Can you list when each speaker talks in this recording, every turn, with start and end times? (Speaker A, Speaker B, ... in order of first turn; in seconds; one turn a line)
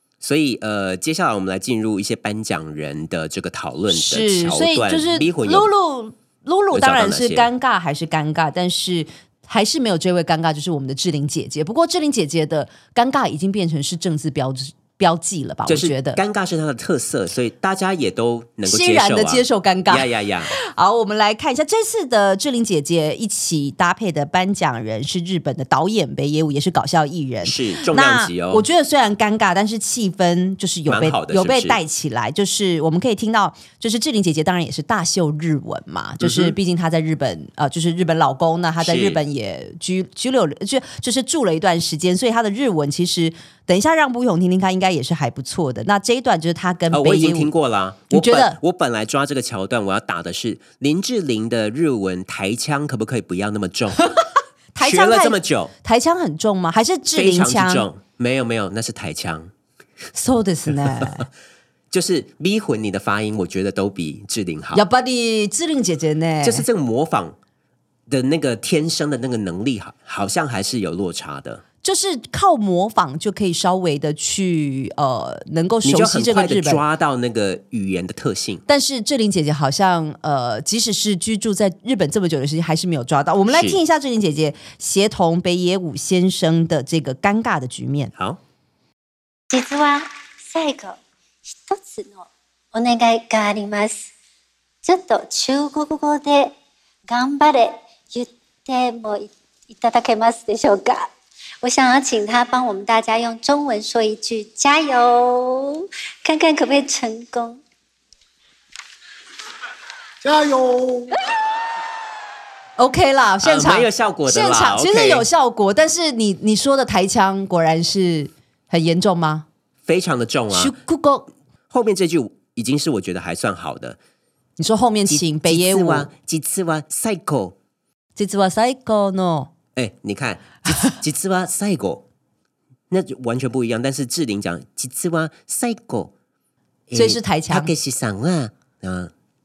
Speaker A: 0.2-5.7
Speaker B: 3.9-16.2
Speaker A: 6.7-7.5
Speaker A: 15.7-20.5
Speaker B: 18.7-47.5
Speaker A: 27.4-28.7
Speaker A: 30.9-31.8
Speaker A: 36.2-36.5
Speaker A: 38.8-39.2
Speaker A: 46.9-54.1
Speaker B: 48.1-48.6
Speaker B: 54.7-57.9
Speaker A: 54.8-55.7
Speaker A: 57.1-59.5
Speaker B: 60.1-61.2
Speaker A: 61.9-64.8
Speaker B: 64.7-66.7
Speaker A: 66.4-67.4
Speaker A: 68.1-71.6
Speaker B: 71.8-76.8
Speaker A: 75.8-78.6
Speaker B: 78.7-88.1
Speaker A: 83.5-83.8
Speaker A: 88.2-88.4
Speaker C: 89.5-91.0
Speaker C: 91.6-94.1
Speaker C: 94.8-96.5
Speaker C: 97.1-101.1
Speaker C: 101.6-107.6
Speaker B: 112.8-119.5
Speaker A: 113.4-115.3
Speaker A: 119.9-120.7
Speaker B: 120.5-121.3
Speaker A: 121.7-124.0
Speaker B: 124.6-126.1
Speaker A: 125.1-127.5
Speaker B: 128.2-129.5
Speaker A: 129.8-132.0
Speaker A: 132.9-136.1
Speaker A: 136.9-139.1
Speaker B: 136.9-137.7